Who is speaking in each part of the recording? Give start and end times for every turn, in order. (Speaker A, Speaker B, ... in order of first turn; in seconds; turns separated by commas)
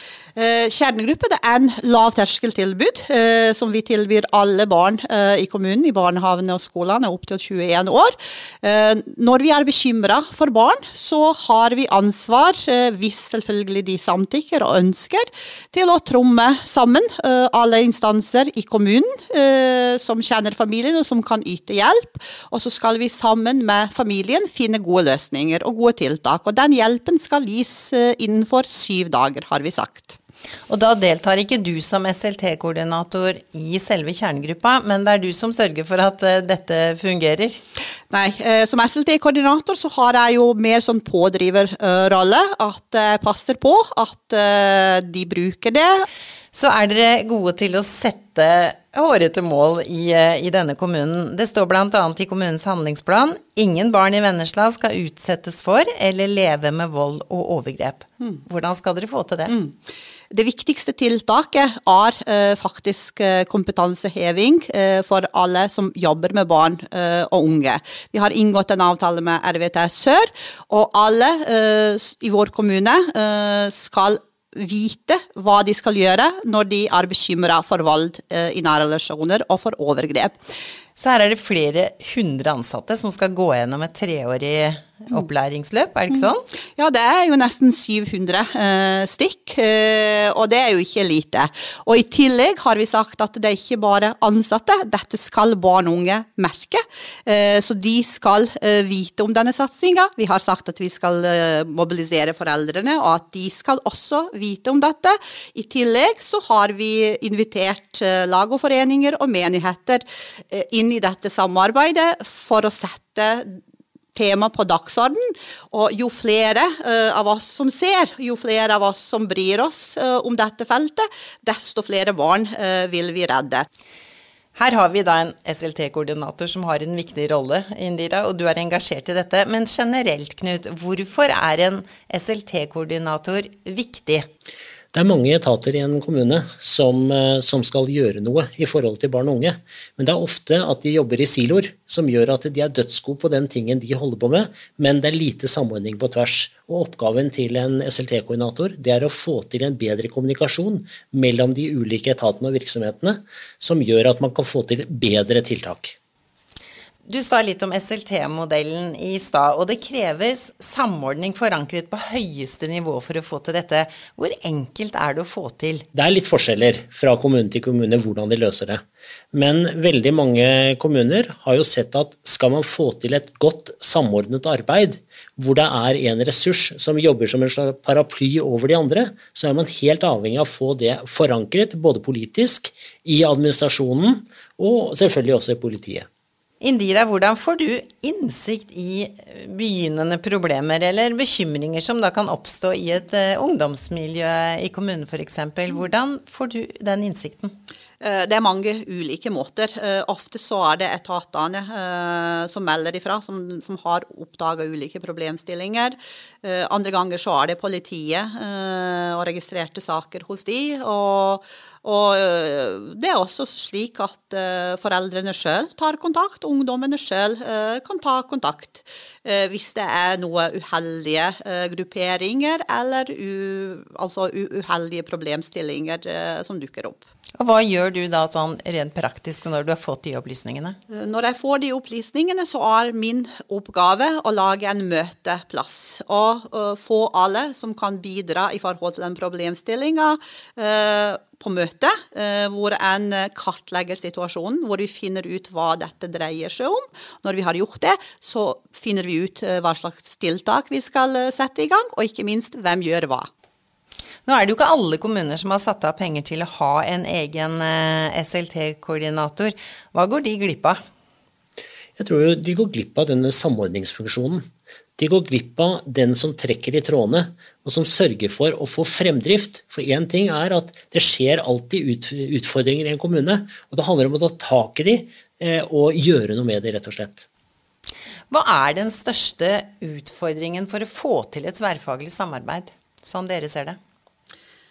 Speaker A: 0.4-30.2, Speaker B: 30.7-37.6, Speaker A: 38.1-46.1, Speaker B: 46.5-59.5, Speaker A: 59.5-59.8, Speaker A: 60.3-80.4, Speaker B: 81.0-86.5, Speaker A: 86.1-113.6, Speaker A: 114.2-123.7, Speaker B: 124.5-134.3, Speaker C: 134.9-156.0, Speaker B: 157.1-165.9, Speaker C: 165.9-168.8, Speaker C: 169.3-186.1, Speaker B: 186.6-197.6, Speaker A: 198.0-227.0, Speaker B: 227.4-230.8, Speaker A: 230.9-253.3, Speaker B: 254.2-260.8, Speaker C: 262.0-264.4, Speaker C: 265.0-277.3, Speaker B: 278.3-283.8